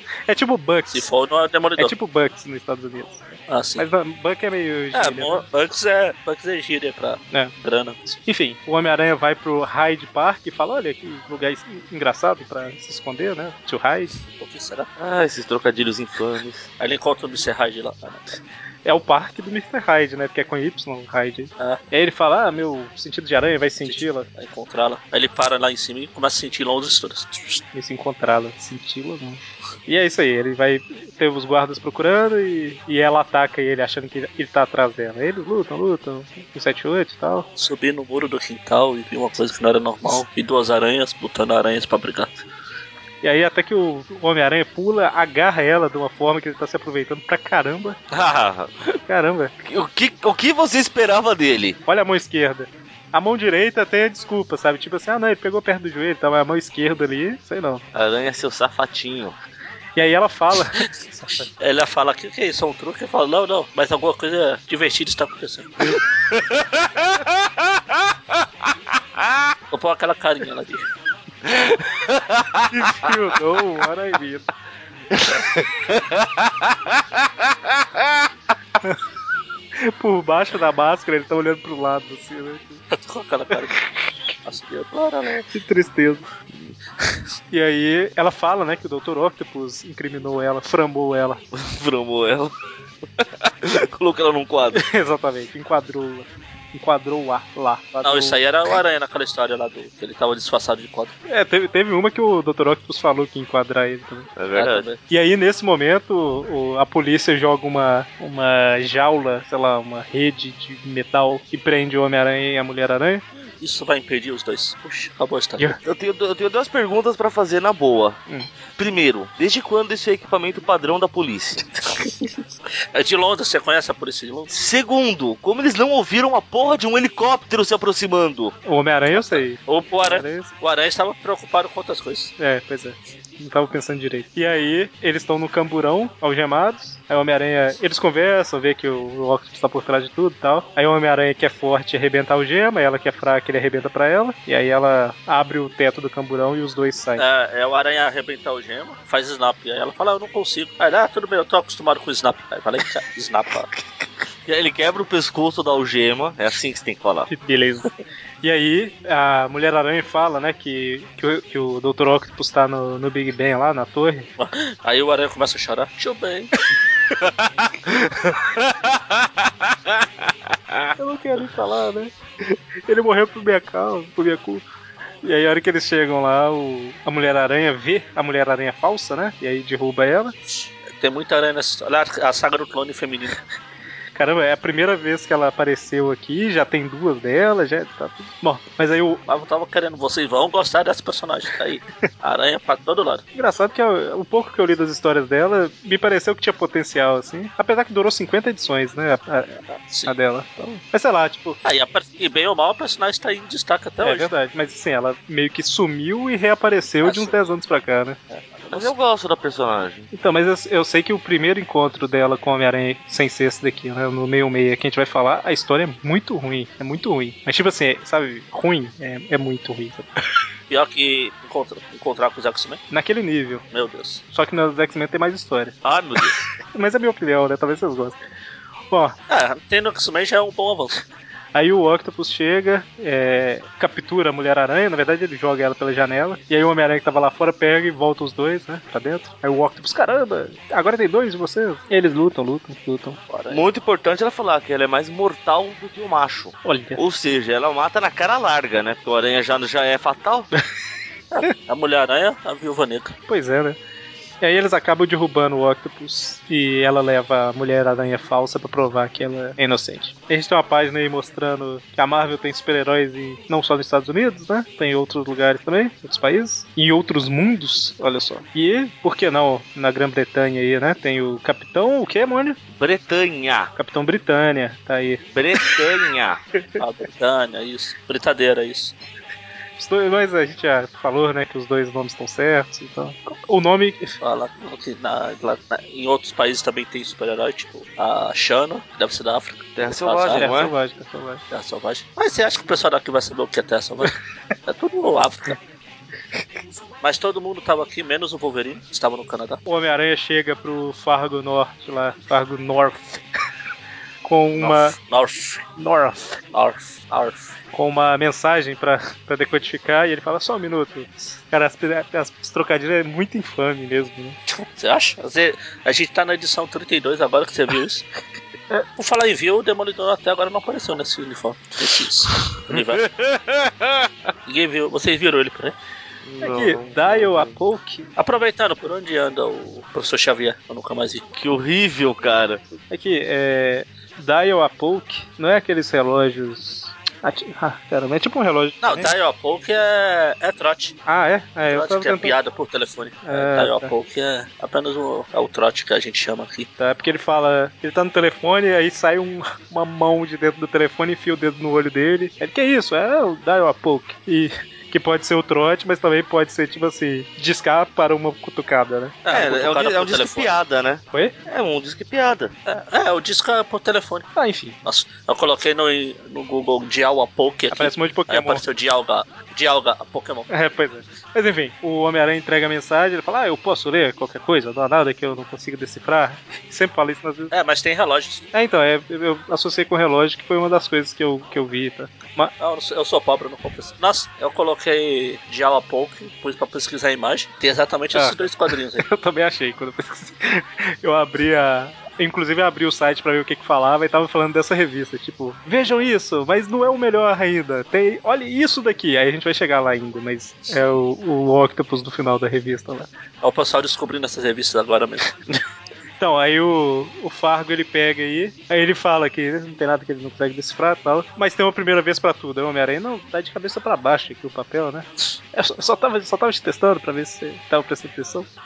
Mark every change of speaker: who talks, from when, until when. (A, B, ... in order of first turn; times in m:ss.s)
0:00.3-0:01.0 A
0:00.9-0:01.9 B
0:01.8-0:05.4 A
0:03.5-0:03.9 B
0:04.9-0:08.0 B
0:08.1-0:14.1 A
0:14.3-0:14.9 B
0:15.0-0:16.7 C
0:16.8-0:18.3 B
0:18.8-0:24.3 A
0:23.8-0:27.6 B
0:27.7-0:37.5 A
0:37.6-0:42.3 B
0:43.2-0:48.0 A
0:48.1-0:48.9 C
0:49.1-0:49.5 A
0:49.6-0:51.8 C
0:51.9-0:57.8 A
0:57.9-0:59.4 C
1:00.0-1:01.5 A
1:01.5-1:06.0 B
1:06.4-1:06.6 C
1:09.7-1:10.9 B
1:11.5-1:12.6 C
1:12.7-1:14.5 A
1:19.8-1:22.8 A
1:22.9-1:23.8 B
1:24.4-1:25.5 B
1:25.5-1:26.3 A
1:27.5-1:31.4 A
1:31.5-1:32.5 C
1:33.2-1:34.8 C
1:34.7-1:38.4 A
1:38.0-1:41.1 B
1:41.3-1:44.3 A
1:44.4-1:44.8 C
1:44.5-1:45.0 B
1:45.1-1:53.2 A
1:53.6-1:55.7 B
1:55.8-1:58.2 C
1:58.8-2:01.7 C
2:02.0-2:04.5 B
2:04.5-2:08.6 C
2:08.6-2:10.5 A
2:09.1-2:12.3 B
2:12.4-2:27.2 A
2:27.2-2:33.7 B
2:34.4-2:37.3 C
2:37.3-2:37.9 A
2:38.4-2:44.3 A
2:44.4-2:46.5 B
2:47.9-2:49.3 C
2:51.0-2:54.6 A
2:55.2-3:00.3 A
3:00.9-3:03.4 B
3:04.2-3:09.2 A
3:09.3-3:13.2 B
3:13.4-3:21.6 A
3:19.7-3:20.1 B
3:21.6-3:24.3 B
3:24.0-3:28.2 A
3:27.0-3:27.3 B
3:28.3-3:28.9 B
3:28.7-3:30.1 C
3:30.1-3:40.1 A
3:40.7-3:42.8 B
3:42.9-3:43.6 A
3:43.7-3:44.2 B
3:44.3-3:45.8 A
3:45.8-3:46.4 C
3:46.7-3:48.2 A
3:48.9-3:49.2 A
3:49.3-3:51.0 B
3:51.5-4:03.2 A
4:03.3-4:03.6 B
4:03.5-4:10.5 C
4:06.6-4:07.0 A
4:11.3-4:13.2 B
4:13.3-4:13.8 A
4:14.4-4:32.6 A
4:32.7-4:33.7 C
4:33.8-4:35.8 A
4:35.3-4:36.4 C
4:36.8-4:38.9 B
4:39.8-4:44.2 A
4:44.2-4:50.5 B
4:49.8-4:50.7 C
4:50.3-4:51.4 A
4:51.5-4:55.6 B
4:57.0-4:59.6 B
4:59.7-5:03.2 A
5:04.2-5:05.0 A
5:04.6-5:05.6 B
5:05.8-5:06.4 A
5:06.5-5:07.5 B
5:07.7-5:14.4 A
5:14.5-5:18.0 B
5:19.0-5:23.0 B
5:22.7-5:24.1 C
5:24.5-5:25.8 B
5:26.2-5:27.6 C
5:26.4-5:28.1 A
5:28.2-5:31.2 B
5:31.3-5:32.6 C
5:32.9-5:39.1 A
5:38.8-5:41.0 B
5:41.1-5:42.4 A
5:41.7-5:46.7 B
5:43.3-5:43.9 A
5:46.8-5:59.2 A
5:59.2-6:00.5 B
5:59.3-6:02.5 C
6:02.7-6:04.3 B
6:04.4-6:04.8 A
6:04.8-6:10.5 B
6:07.7-6:08.6 A
6:10.5-6:17.5 A
6:17.5-6:18.4 B
6:18.5-6:22.5 A
6:22.6-6:29.0 B
6:28.1-6:28.5 A
6:29.0-6:43.1 A
6:43.4-6:45.3 B
6:46.2-6:58.5 A